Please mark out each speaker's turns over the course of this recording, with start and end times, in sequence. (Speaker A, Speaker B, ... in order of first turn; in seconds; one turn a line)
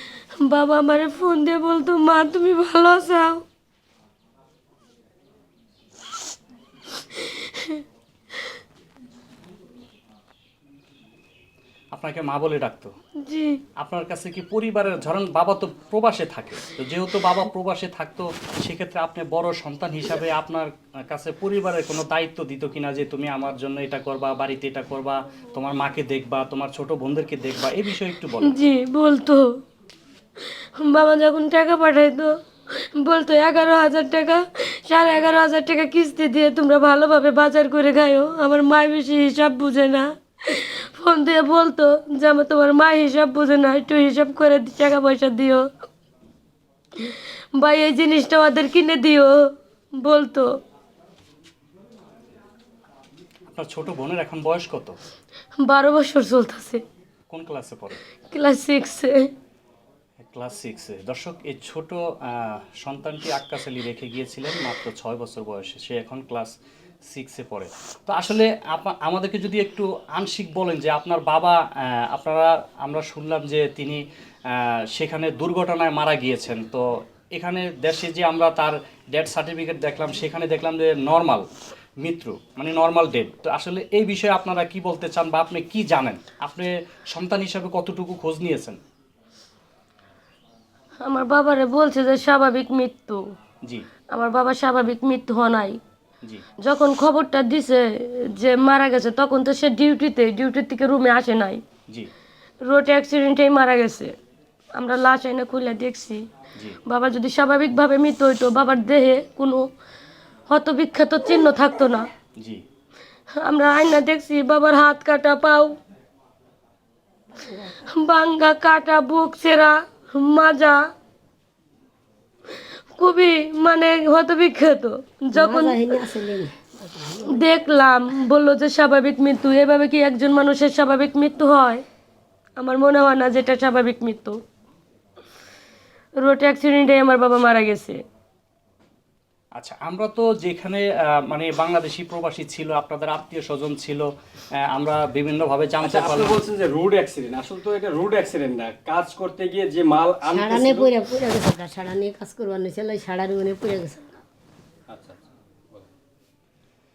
Speaker A: 0.4-3.4
Speaker A: 7.0-7.8
Speaker B: 11.9-12.9
Speaker A: 13.2-13.6
Speaker B: 13.8-28.6
Speaker A: 28.4-29.6
Speaker A: 30.5-45.7
Speaker A: 47.0-50.6
Speaker B: 53.5-55.0
Speaker A: 55.6-56.8
Speaker B: 57.3-58.0
Speaker A: 58.3-59.3
Speaker B: 60.2-66.5
Speaker B: 67.1-81.5
Speaker B: 82.0-88.8
Speaker A: 91.0-93.3
Speaker A: 94.1-95.8
Speaker A: 96.6-101.6
Speaker A: 102.6-104.1
Speaker A: 104.7-106.2
Speaker A: 106.8-109.7
Speaker A: 110.5-112.1
Speaker A: 113.3-115.8
Speaker C: 117.4-117.8
Speaker A: 117.7-120.8
Speaker A: 122.9-126.0
Speaker C: 125.3-127.5
Speaker A: 127.2-131.8
Speaker A: 132.6-134.4
Speaker A: 136.2-138.0
Speaker B: 139.6-146.5
Speaker D: 145.8-151.0
Speaker C: 150.3-154.2
Speaker D: 154.9-155.9